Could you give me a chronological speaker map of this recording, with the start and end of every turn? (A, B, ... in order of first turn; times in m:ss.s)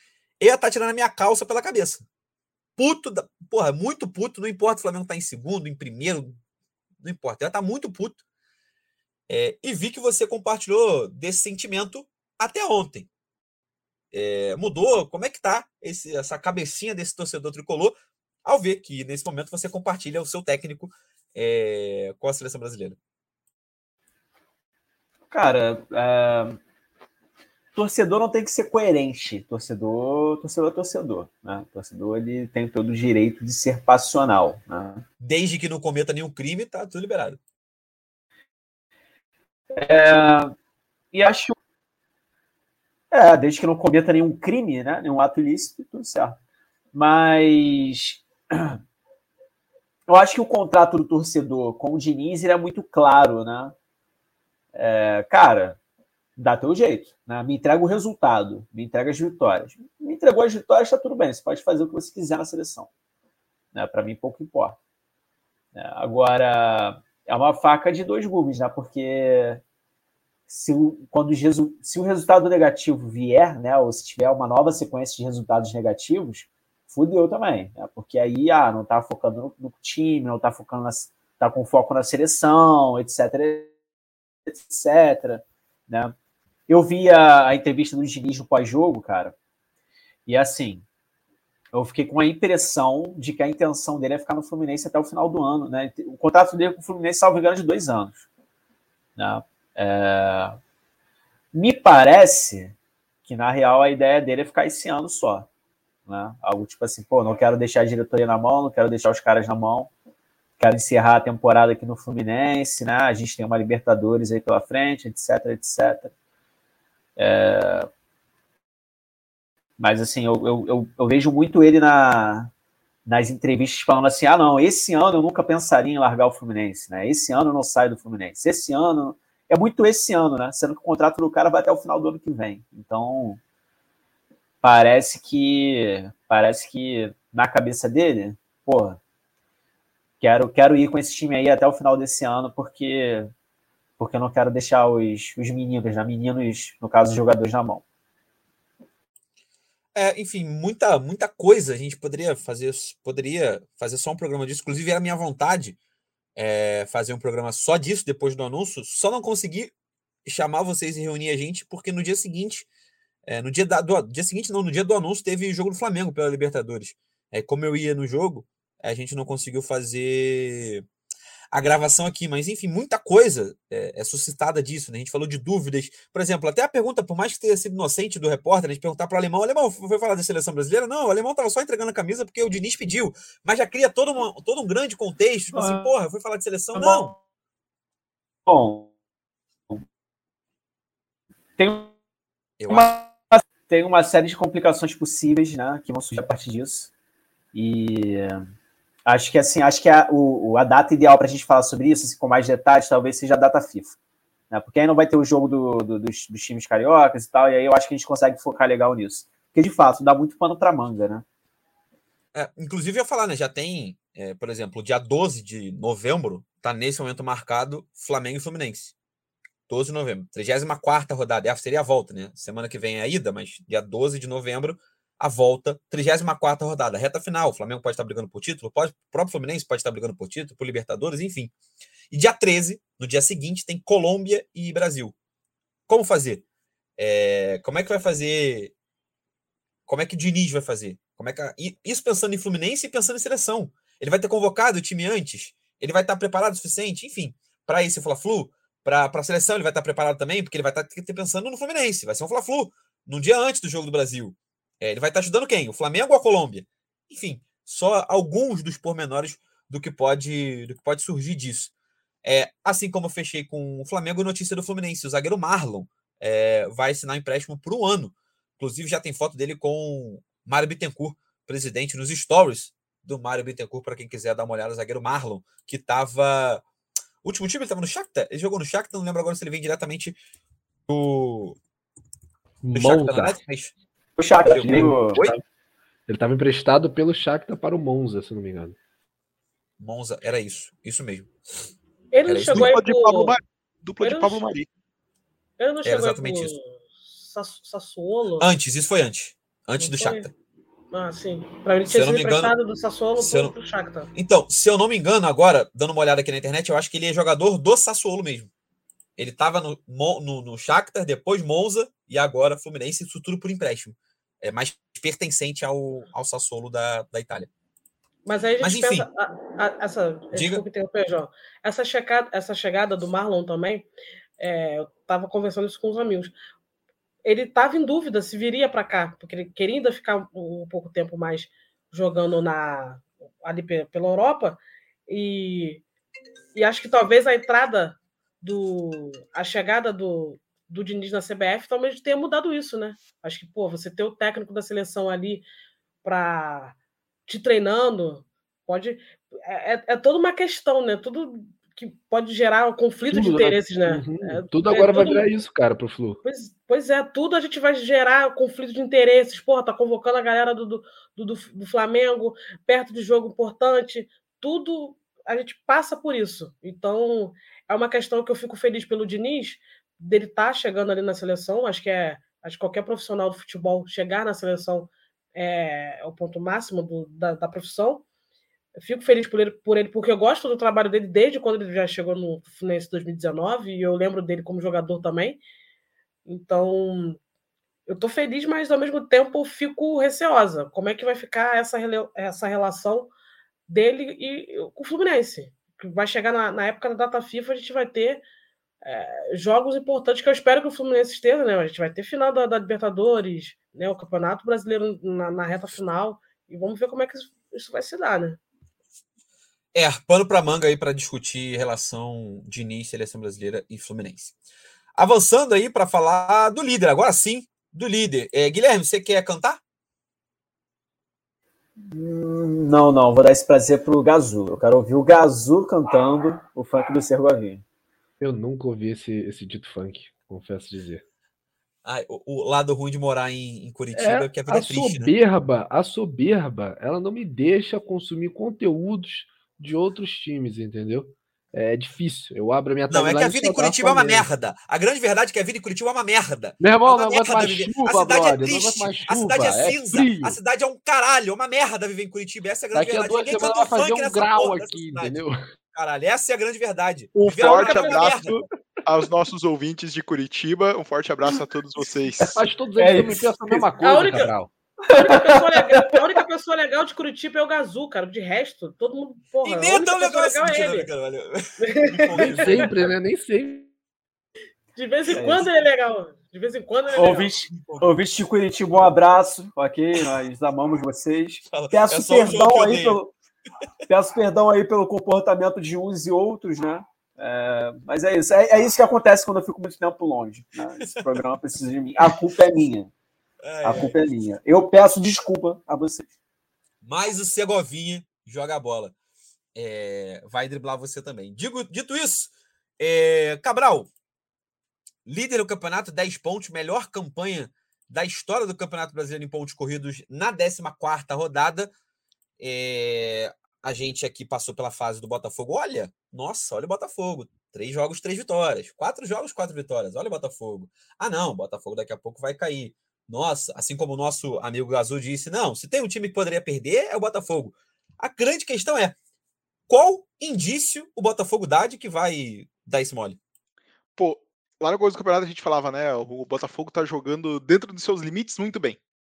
0:00.4-0:02.0 A
0:02.8-0:06.4 A
0:07.0-0:08.2 A
0:09.3-0:13.1 A
0:14.1-0:23.0 A
0:25.3-0:26.6 B
0:27.7-0:35.0 B
0:35.2-0:37.4 A
0:39.8-0:40.6 B
0:41.1-0:41.5 B
0:43.1-0:46.4 B
0:46.9-0:48.8 B
0:50.1-0:53.7 B
0:54.7-0:55.8 B
0:56.4-1:02.9 B
1:03.7-1:04.8 B
1:05.7-1:09.6 B
1:10.5-1:23.7 B
1:24.5-1:26.2 B
1:26.7-1:29.4 B
1:30.2-1:30.8 B
1:31.7-1:38.2 B
1:39.2-1:40.6 B
1:41.5-1:45.5 B
1:46.0-1:49.9 B
1:50.6-1:56.1 B
1:57.2-1:57.9 B
1:59.8-2:02.5 B
2:03.0-2:13.4 B
2:14.6-2:19.0 B
2:20.2-2:23.3 B
2:24.0-2:27.8 B
2:29.9-2:35.8 A
2:36.4-2:39.7 A
2:40.2-2:42.7 A
2:43.2-2:50.8 A
2:51.5-3:07.1 A
3:05.5-3:05.9 B
3:06.7-3:07.2 B
3:08.4-3:08.9 B
3:11.6-3:11.9 B
3:12.6-3:13.0 A
3:12.7-3:16.9 B
3:17.5-3:18.4 B
3:19.0-3:24.0 B
3:24.5-3:31.2 B
3:32.3-3:38.9 A
3:39.7-3:51.5 A
3:52.1-3:55.1 A
3:55.9-3:56.4 A
3:57.0-3:58.7 A
3:59.9-4:21.7 A
4:22.2-4:36.6 A
4:37.2-4:40.2 A
4:40.9-4:41.6 A
4:42.6-4:43.4 C
4:42.7-4:43.7 A
4:44.2-4:45.2 B
4:44.4-4:45.4 A
4:44.6-4:45.4 C
4:46.1-4:48.8 C
4:49.8-4:51.3 A
4:52.1-4:53.4 D
4:52.2-4:52.8 A
4:52.5-4:54.7 E
4:54.0-4:54.4 D
4:55.6-4:58.5 D
4:55.8-4:56.5 A
4:58.4-5:00.3 A
4:59.8-5:00.3 D
5:00.9-5:04.1 D
5:01.8-5:02.5 A
5:03.2-5:03.5 A
5:04.1-5:08.5 A
5:09.2-5:17.5 A
5:18.2-5:23.9 D
5:18.6-5:19.1 A
5:20.3-5:20.6 A
5:24.4-5:26.3 D
5:27.2-5:35.8 D
5:36.5-5:45.4 D
5:46.0-5:46.7 D
5:47.3-5:55.3 D
5:53.1-5:56.2 C
5:56.2-6:18.0 D
6:18.8-6:25.4 D
6:26.2-6:27.2 D
6:27.9-6:33.1 D
6:33.7-6:38.2 D
6:38.8-6:48.4 D
6:49.7-6:54.3 A
6:55.0-6:59.6 A
7:01.8-7:07.6 B
7:08.2-7:11.0 C
7:11.8-7:15.1 A
7:13.9-7:24.3 C
7:22.9-7:35.2 A
7:26.6-7:30.4 C
7:32.7-7:35.4 C
7:35.7-7:38.4 A
7:37.2-7:42.4 E
7:37.4-7:38.1 D
7:42.2-7:44.2 B
7:42.4-7:44.5 C
7:43.8-7:44.3 D
7:44.9-7:46.0 B
7:44.9-7:50.9 D
7:49.4-7:52.9 A
7:51.6-7:52.6 D
7:52.2-7:53.7 C
7:54.8-7:57.3 D
7:55.1-7:55.5 B
7:56.9-8:03.1 B
7:57.5-7:57.8 A
8:01.5-8:03.0 A
8:03.9-8:12.9 B
8:10.8-8:11.2 A
8:13.4-8:13.9 A
8:13.6-8:16.1 B
8:16.8-8:18.9 A
8:19.5-8:23.9 A
8:25.0-8:31.7 A
8:32.4-8:49.0 A
8:49.7-8:53.2 A
8:54.0-8:58.8 E